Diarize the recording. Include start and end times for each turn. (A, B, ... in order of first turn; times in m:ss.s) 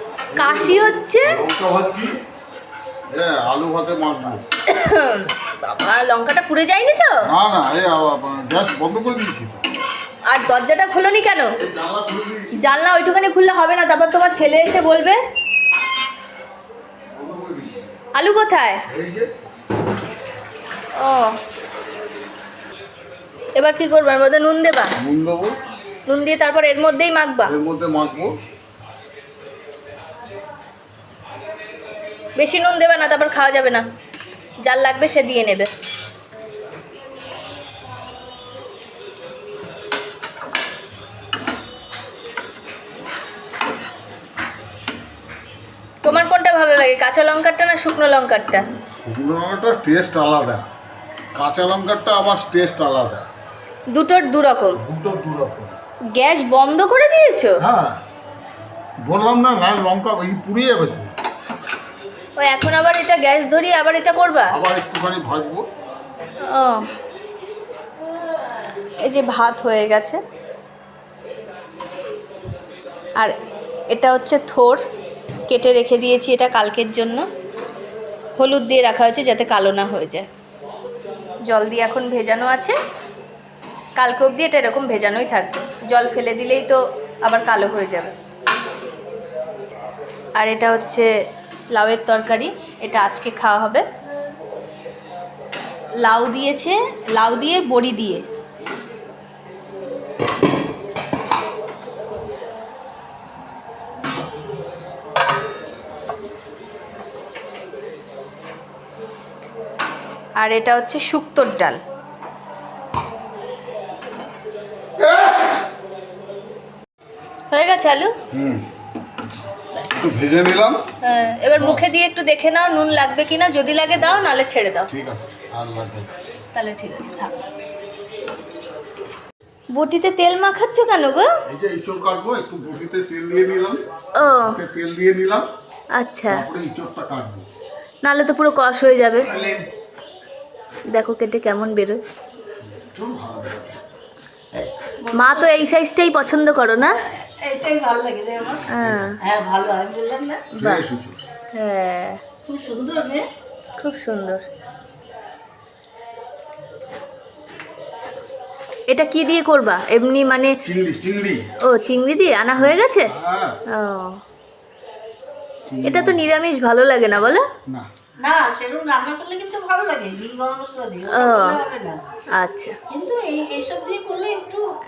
0:00.3-0:02.1 A
0:00.4-0:01.4 B
0:03.1-0:04.4 A
0:04.7-0:07.2 B
0:07.2-0:09.6 A
0:10.3-0:11.5 B
0:11.6-0:12.6 A
0:12.6-0:15.2 B
0:17.1-0:17.8 A
0:18.2-0:18.8 B
0:18.9-0:19.3 A
0:21.0-0:21.4 B
0:23.6-0:25.0 B
0:25.0-0:25.6 A
0:26.1-0:27.5 B
0:27.4-0:28.3 A
0:32.4-0:33.8 B
0:34.6-0:35.7 B
0:46.0-0:48.7 B
0:49.0-0:50.7 A
0:51.4-0:53.3 A
0:53.9-0:54.8 B
0:54.8-0:55.8 A
0:56.1-0:57.6 B
0:57.6-0:58.0 A
0:59.0-1:01.1 A
1:02.4-1:04.6 B
1:04.5-1:05.7 A
1:06.4-1:06.9 B
1:09.0-1:10.2 B
1:13.9-1:14.8 B
1:15.5-1:17.3 B
1:18.4-1:20.3 B
1:21.5-1:22.8 B
1:24.0-1:28.2 B
1:30.4-1:31.1 B
1:31.7-1:33.8 B
1:36.0-1:38.2 B
1:50.4-1:51.8 B
1:55.0-1:55.5 A
1:57.5-1:58.1 B
1:58.3-1:58.6 A
1:59.9-2:00.8 A
2:01.0-2:04.9 B
2:01.6-2:01.8 A
2:04.9-2:06.1 A
2:06.5-2:07.4 B
2:09.7-2:11.3 B
2:11.5-2:15.5 A
2:14.2-2:14.6 B
2:15.9-2:16.4 B
2:16.3-2:17.5 A
2:18.0-2:19.3 B
2:19.3-2:19.7 A
2:20.9-2:22.0 B
2:22.6-2:23.8 A
2:25.0-2:25.7 C
2:25.1-2:27.0 B
2:26.8-2:28.7 C
2:28.6-2:29.1 A
2:28.7-2:29.2 B
2:29.2-2:30.4 C
2:30.6-2:31.3 A
2:30.6-2:30.8 B
2:31.5-2:32.2 B
2:32.5-2:33.3 C
2:33.8-2:34.4 B
2:38.9-2:40.5 B
2:40.6-2:41.4 A
2:41.7-2:43.1 B
2:42.5-2:43.5 A
2:43.7-2:44.2 B
2:45.7-2:46.3 A
2:45.8-2:47.4 B
2:48.2-2:52.0 C
2:51.1-2:51.6 B
2:52.4-2:52.8 B
2:52.9-2:54.6 C